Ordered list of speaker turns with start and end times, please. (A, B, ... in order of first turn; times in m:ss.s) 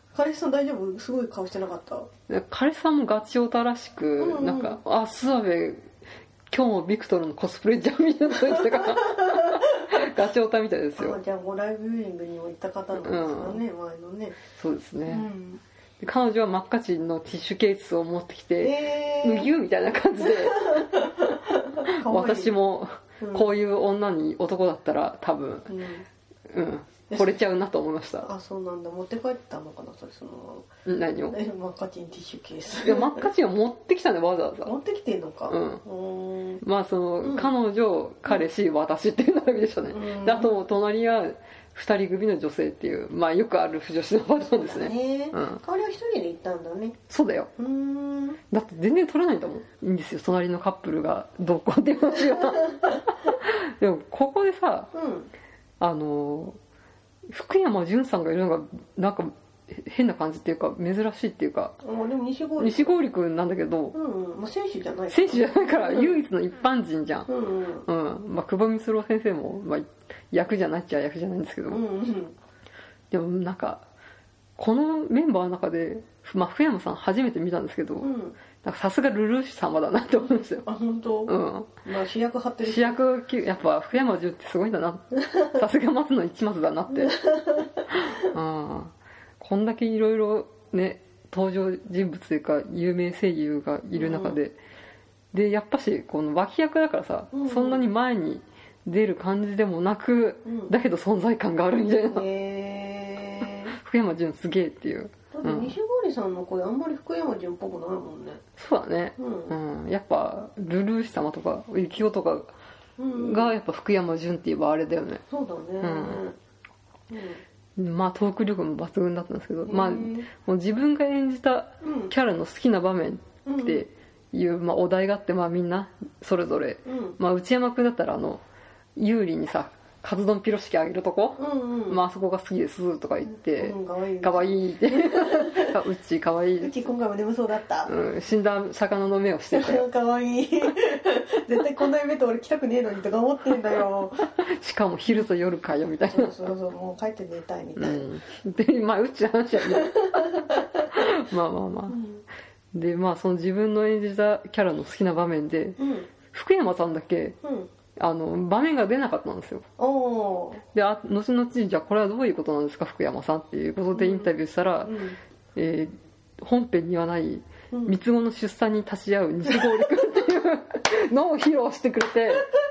0:00.1-0:02.1 A
0:02.3-0:05.9 B
0:04.2-0:04.8 A
0:06.5-0:11.2 B
0:08.5-0:10.1 A
0:11.0-0:14.4 A
0:12.9-0:13.6 B
0:14.5-0:15.2 B
0:15.1-0:15.6 A
0:16.0-0:20.9 B
0:18.6-0:19.5 A
0:20.2-0:22.5 A
0:21.9-0:25.7 B
0:23.2-0:23.5 A
0:25.7-0:26.0 A
0:26.5-0:28.3 B
0:27.1-0:27.4 A
0:28.2-0:30.6 A
0:30.8-0:31.4 B
0:31.3-0:33.3 A
0:32.8-0:34.7 B
0:34.6-0:36.6 A
0:35.5-0:35.8 B
0:36.6-0:45.6 B
0:37.2-0:37.5 A
0:39.9-0:40.6 A
0:44.4-0:47.0 A
0:47.1-0:47.5 B
0:47.6-0:48.4 A
0:48.5-0:54.9 B
0:52.4-0:53.0 A
0:54.9-0:55.3 A
0:55.8-0:56.6 B
0:57.3-1:01.8 B
1:01.8-1:03.0 A
1:02.6-1:03.9 B
1:03.9-1:06.2 A
1:05.1-1:07.3 B
1:07.3-1:07.8 A
1:07.8-1:11.8 B
1:11.7-1:12.4 A
1:13.1-1:13.8 B
1:14.6-1:18.1 B
1:18.0-1:18.4 A
1:18.6-1:20.6 B
1:20.6-1:23.0 A
1:21.3-1:21.7 B
1:22.6-1:27.2 B
1:25.2-1:25.6 A
1:26.9-1:28.2 A
1:28.1-1:34.6 B
1:33.9-1:34.4 A
1:35.3-1:42.2 B
1:37.3-1:37.9 A
1:40.4-1:40.7 A
1:42.1-1:43.7 A
1:43.7-1:45.8 B
1:45.3-1:48.4 A
1:48.6-1:52.5 B
1:49.2-1:49.5 A
1:53.0-1:53.6 A
1:53.1-1:55.2 B
1:55.3-1:56.4 A
1:55.8-1:56.2 B
1:57.1-1:57.4 A
1:57.8-2:08.4 B
1:59.6-2:00.3 A
2:01.8-2:02.1 A
2:03.4-2:03.8 A
2:06.8-2:07.2 A
2:09.0-2:16.7 B
2:11.4-2:12.0 A
2:13.3-2:15.7 A
2:16.6-2:17.9 A
2:17.9-2:19.8 B
2:19.5-2:24.3 A
2:24.4-2:26.3 B
2:26.1-2:28.1 A
2:27.8-2:30.4 B
2:29.6-2:31.0 A
2:30.9-2:32.0 B
2:31.9-2:32.2 A
2:32.7-2:35.8 B
2:35.8-2:36.1 A
2:36.3-2:37.4 B
2:37.4-2:37.7 A
2:38.0-2:39.6 B
2:39.8-2:40.6 A
2:40.7-2:44.9 B
2:43.9-2:44.3 A
2:44.8-2:45.2 A
2:45.5-2:52.5 B
2:47.7-2:48.0 A